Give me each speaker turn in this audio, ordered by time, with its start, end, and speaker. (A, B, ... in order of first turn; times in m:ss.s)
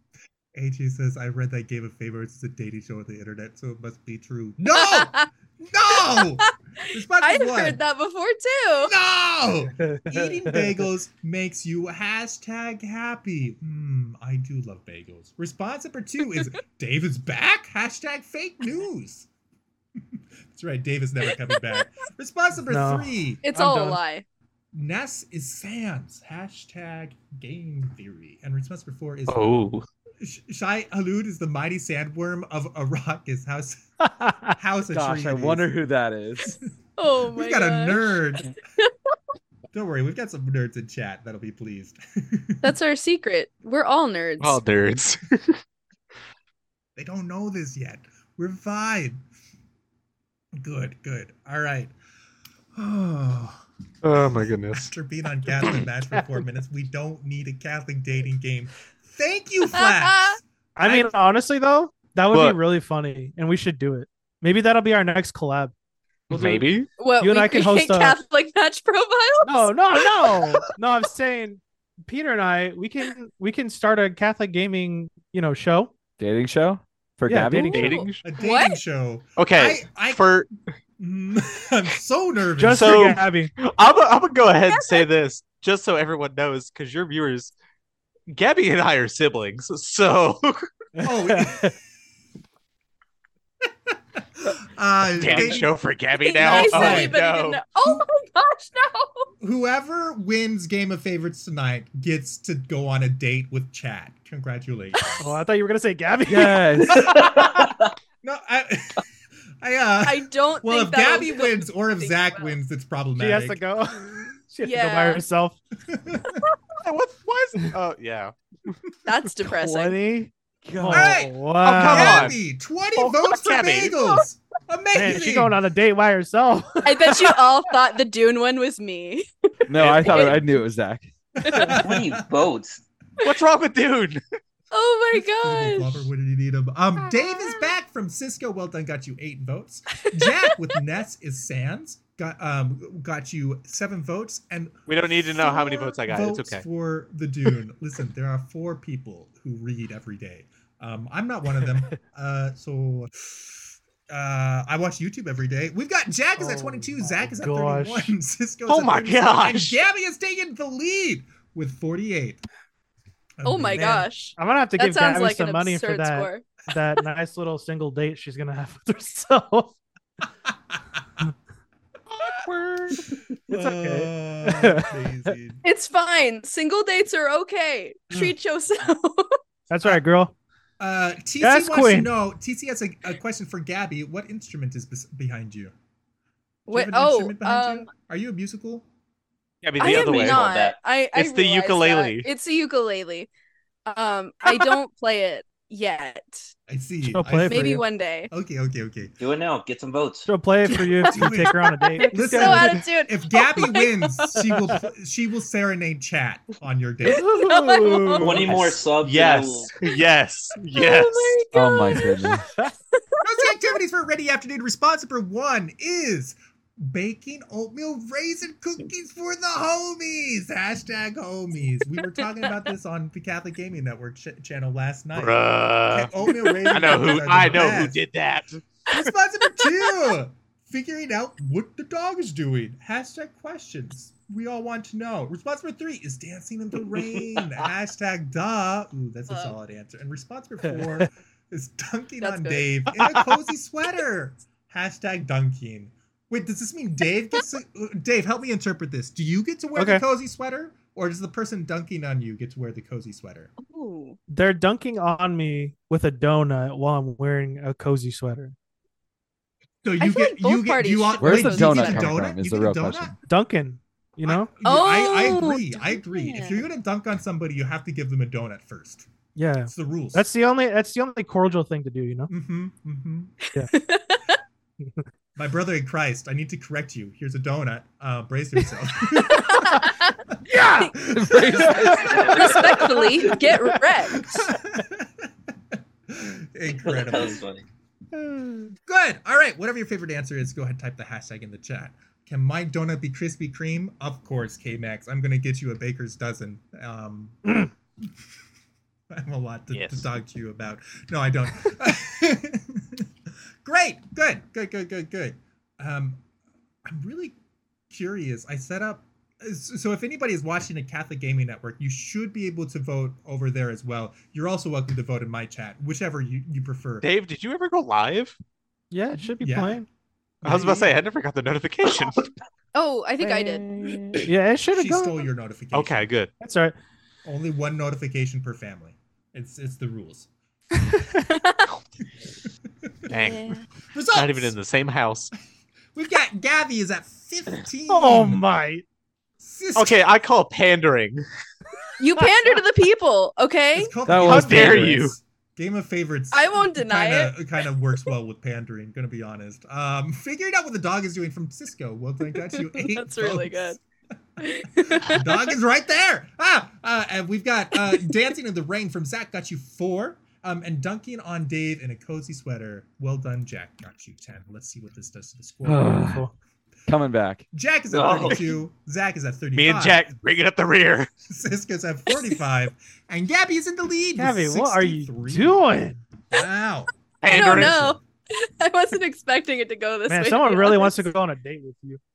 0:00.6-0:07.8 A
0:04.7-0:05.3 B
0:07.2-0:08.9 B
0:08.8-0:19.3 A
0:09.8-0:10.6 C
0:20.5-0:24.0 A
0:22.7-0:23.1 C
0:23.4-0:24.2 B
0:24.7-0:29.6 A
0:29.3-0:29.9 D
0:30.2-0:33.8 A
0:34.0-0:34.6 C
0:34.5-0:35.7 A
0:34.9-0:36.6 E
0:37.0-0:38.2 B
0:37.3-0:38.5 A
0:39.7-0:42.7 A
0:42.6-0:44.6 B
0:44.4-0:45.6 D
0:47.0-0:49.2 A
0:50.6-0:51.9 A
0:52.8-1:01.1 A
0:54.0-0:54.9 D
0:59.7-1:00.4 B
1:00.8-1:05.7 C
1:02.3-1:02.6 D
1:06.3-1:06.9 D
1:06.3-1:08.2 C
1:07.0-1:09.7 B
1:09.4-1:15.9 C
1:16.2-1:18.0 E
1:17.3-1:17.9 C
1:17.7-1:18.2 D
1:17.8-1:18.8 B
1:18.2-1:20.3 A
1:19.4-1:20.5 D
1:21.0-1:23.2 A
1:22.6-1:23.5 C
1:22.7-1:27.5 D
1:24.7-1:25.0 B
1:28.3-1:30.7 D
1:31.0-1:31.7 C
1:31.0-1:31.8 A
1:34.4-1:35.7 A
1:35.2-1:37.6 D
1:36.2-1:39.3 B
1:36.4-1:37.2 A
1:39.4-1:45.3 A
1:45.2-1:47.4 C
1:46.3-1:47.3 E
1:47.1-1:47.7 F
1:48.2-1:49.0 A
1:49.6-1:53.6 A
1:50.0-1:52.6 B
1:53.2-1:55.6 C
1:54.6-1:55.2 B
1:55.9-1:56.4 A
1:56.8-1:58.7 D
1:59.0-2:00.0 B
1:59.6-2:02.4 C
2:00.6-2:01.3 E
2:00.9-2:05.6 A
2:01.6-2:02.4 D
2:03.0-2:04.0 D
2:04.9-2:07.3 C
2:06.8-2:09.3 B
2:09.7-2:11.1 E
2:09.8-2:10.4 D
2:10.0-2:10.4 B
2:11.4-2:12.2 A
2:11.4-2:11.7 B
2:11.7-2:12.8 F
2:13.2-2:14.2 D
2:14.7-2:16.1 B
2:15.1-2:42.4 A
2:24.9-2:26.7 D
2:36.4-2:38.1 C
2:38.7-2:39.8 D
2:43.4-2:44.1 A
2:43.4-2:46.4 B
2:44.4-2:49.8 C
2:50.5-2:51.0 A
2:53.5-2:55.6 A
2:53.5-2:55.3 C
2:55.6-2:59.4 B
2:59.7-3:00.3 C
3:00.8-3:05.7 A
3:01.4-3:02.1 C
3:06.7-3:07.9 B
3:06.7-3:08.8 A
3:09.6-3:10.5 D
3:09.8-3:13.3 B
3:09.8-3:10.8 F
3:11.1-3:12.3 D
3:13.9-3:16.5 B
3:16.7-3:19.2 A
3:17.0-3:17.8 C
3:17.5-3:18.3 B
3:19.2-3:20.3 F
3:20.3-3:22.8 C
3:20.7-3:27.3 A
3:22.0-3:24.3 B
3:27.1-3:28.5 B
3:27.1-3:28.5 C
3:28.2-3:29.7 F
3:28.5-3:31.4 D
3:30.7-3:33.5 B
3:31.5-3:32.4 E
3:33.2-3:48.0 A
3:45.2-3:46.1 D
3:46.7-3:48.6 D
3:48.9-4:13.5 A
3:59.3-3:59.6 B
4:02.2-4:02.9 B
4:09.8-4:10.0 C
4:13.6-4:14.2 B
4:14.3-4:18.6 C
4:19.8-4:23.2 A
4:20.0-4:22.3 B
4:21.2-4:23.2 E
4:23.3-4:24.5 C
4:24.2-4:29.1 A
4:24.6-4:26.6 B
4:29.4-4:32.3 C
4:29.7-4:30.3 A
4:32.3-4:33.3 A
4:33.6-4:34.4 B
4:35.4-4:40.0 A
4:39.2-4:40.9 B
4:40.8-4:43.0 A
4:40.9-4:42.8 E
4:41.8-4:44.3 B
4:42.0-4:43.2 F
4:44.1-4:47.4 A
4:46.8-4:47.6 F
4:48.2-4:48.7 C
4:48.8-4:57.6 A
4:59.1-5:03.1 A
4:59.7-5:00.1 D
5:03.6-5:06.2 A
5:06.8-5:07.4 A
5:07.9-5:17.1 A
5:17.0-5:18.4 D
5:18.9-5:19.9 C
5:19.2-5:19.8 A
5:20.4-5:21.0 A
5:20.4-5:22.3 D
5:22.7-5:23.7 B
5:23.3-5:25.2 C
5:24.7-5:26.1 A
5:25.7-5:26.3 D
5:26.4-5:26.8 C
5:27.2-5:30.3 A
5:30.9-5:31.2 C
5:31.3-5:31.7 B
5:33.1-5:33.6 D
5:33.3-5:33.6 B
5:33.9-5:34.5 A
5:34.1-5:35.3 D
5:35.9-5:38.4 A
5:37.9-5:38.8 C
5:39.4-5:40.0 A
5:39.8-5:41.2 D
5:42.0-5:43.9 B
5:43.8-5:53.8 A
5:44.1-5:45.0 E
5:44.2-5:45.2 D
5:46.3-5:47.4 B
5:52.5-5:53.8 B
5:54.4-5:55.5 B
5:54.9-6:06.0 A
6:05.6-6:06.2 E
6:06.0-6:06.3 C
6:06.9-6:07.4 E
6:07.5-6:10.0 A
6:07.9-6:08.5 F
6:09.6-6:11.1 D
6:11.3-6:15.6 A
6:14.2-6:16.0 C
6:16.3-6:17.8 A
6:17.2-6:18.0 D
6:17.3-6:21.0 B
6:20.1-6:22.0 C